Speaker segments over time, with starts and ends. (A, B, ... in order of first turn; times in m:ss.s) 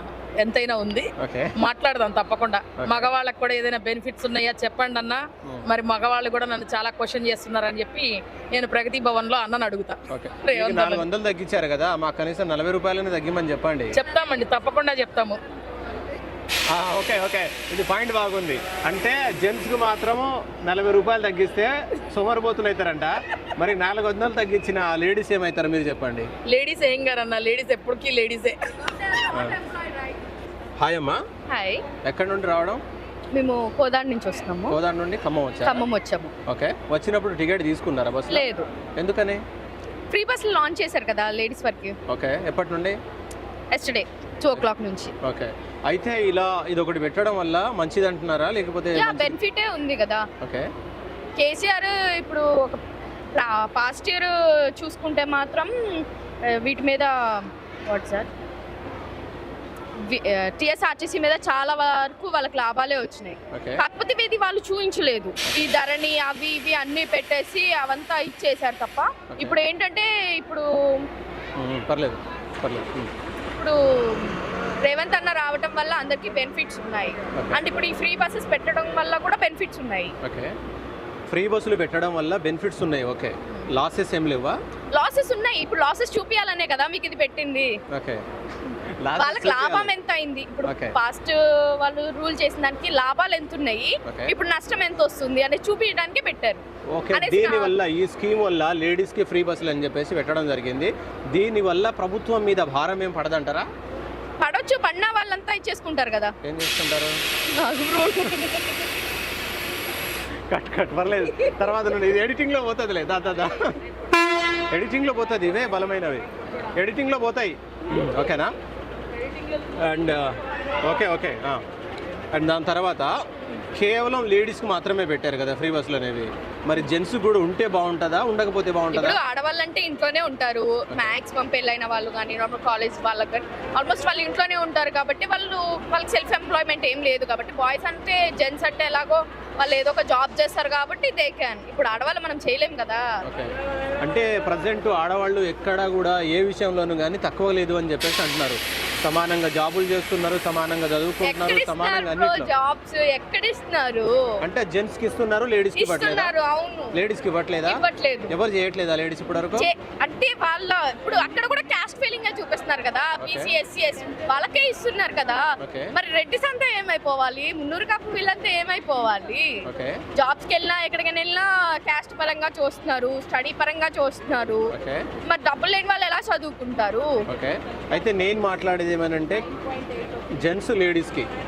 0:00.4-0:11.1 A
0:01.2-0:01.5 B
0:02.8-0:03.1 B
0:10.1-0:14.0 B
0:13.9-0:15.4 A
0:16.7-0:26.3 B
0:26.5-0:28.6 A
0:29.3-0:29.6 B
0:30.8-0:31.2 B
0:31.5-0:31.9 C
0:32.0-0:32.8 B
0:33.3-0:34.8 C
0:34.7-0:35.8 B
0:35.6-0:36.3 C
0:36.5-0:39.4 B
0:38.3-0:38.7 C
0:40.1-0:42.0 C
0:42.1-0:43.0 B
0:43.7-0:45.1 C
0:45.2-0:49.4 B
0:48.9-0:50.3 C
0:50.4-0:50.7 B
0:51.4-0:52.8 C
0:53.4-0:58.3 C
1:00.0-1:11.1 C
1:03.5-1:03.8 B
1:11.6-1:13.1 B
1:13.5-1:20.1 C
1:20.2-1:20.5 B
1:21.3-1:24.6 B
1:24.9-1:27.8 C
1:27.9-1:28.2 B
1:29.0-1:29.9 B
1:29.2-1:36.6 C
1:30.6-1:31.0 B
1:34.1-1:34.3 B
1:36.9-1:43.7 B
1:37.1-1:37.8 C
1:44.4-1:46.4 C
1:46.4-1:47.2 B
1:47.5-1:48.9 C
1:50.5-1:53.8 B
1:51.3-1:51.7 C
1:54.7-1:56.2 B
1:56.8-1:58.5 B
1:59.8-2:01.6 B
2:02.3-2:03.1 B
2:03.8-2:09.2 B
2:08.9-2:23.0 C
2:23.2-2:23.5 B
2:24.0-2:32.5 B
2:31.2-2:34.1 C
2:34.4-2:36.3 B
2:35.8-2:37.0 C
2:36.9-2:39.7 B
2:37.7-2:38.3 C
2:39.6-2:57.1 C
2:43.2-2:43.5 B
2:45.6-2:45.9 B
2:49.6-2:50.0 B
2:54.7-2:55.1 B
2:57.3-2:59.4 B
3:00.4-3:01.3 B